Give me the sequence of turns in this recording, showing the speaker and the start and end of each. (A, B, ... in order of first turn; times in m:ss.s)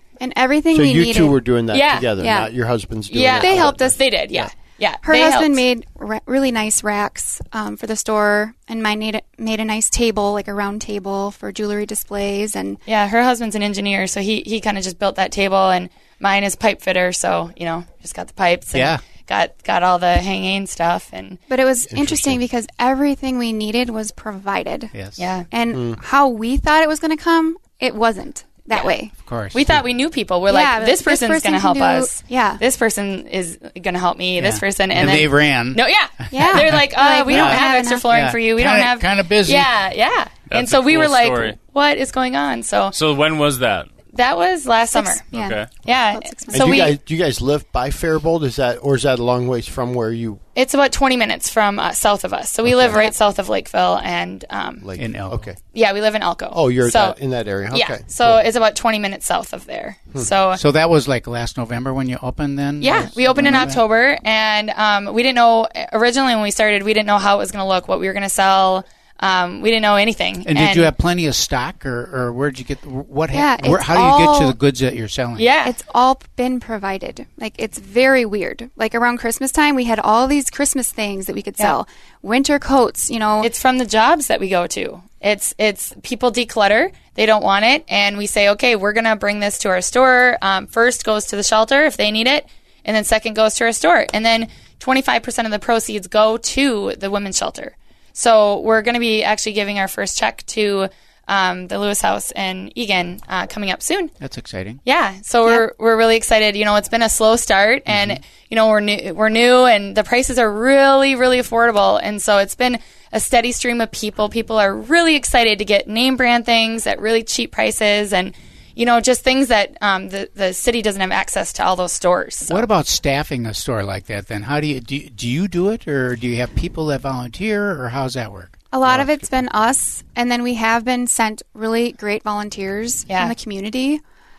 0:00.2-0:01.4 A
0:00.7-0:04.5 B
0:01.7-0:02.1 C
0:02.2-0:02.5 A
0:03.1-0:05.6 C
0:03.4-0:03.8 A
0:05.0-0:12.8 A
0:12.9-0:21.4 C
0:18.7-0:19.0 D
0:21.5-0:24.9 A
0:21.9-0:22.4 B
0:24.9-0:25.3 D
0:25.2-0:25.5 C
0:25.5-0:29.1 A
0:25.7-0:26.0 B
0:29.2-0:29.8 D
0:29.5-0:43.0 C
0:30.5-0:32.6 A
0:34.4-0:39.7 D
0:36.3-0:38.0 A
0:40.5-0:41.6 E
0:42.9-0:43.9 E
0:44.1-0:45.2 C
0:44.9-0:46.9 A
0:45.3-0:45.8 E
0:45.8-0:47.0 C
0:46.5-0:50.4 B
0:50.6-0:54.8 C
0:52.7-0:53.0 B
0:54.8-0:55.6 B
0:55.0-0:55.5 D
0:55.7-0:57.2 C
0:56.5-0:58.4 B
0:57.7-1:00.6 C
1:00.5-1:03.8 D
1:02.8-1:10.9 C
1:10.4-1:15.5 D
1:13.3-1:14.6 A
1:15.4-1:15.8 C
1:15.6-1:23.5 A
1:23.4-1:44.1 C
1:44.2-1:44.8 D
1:44.8-2:02.7 C
1:47.9-1:48.2 D
2:02.5-2:09.0 D
2:08.7-2:14.0 A
2:08.9-2:09.3 B
2:13.1-2:13.4 C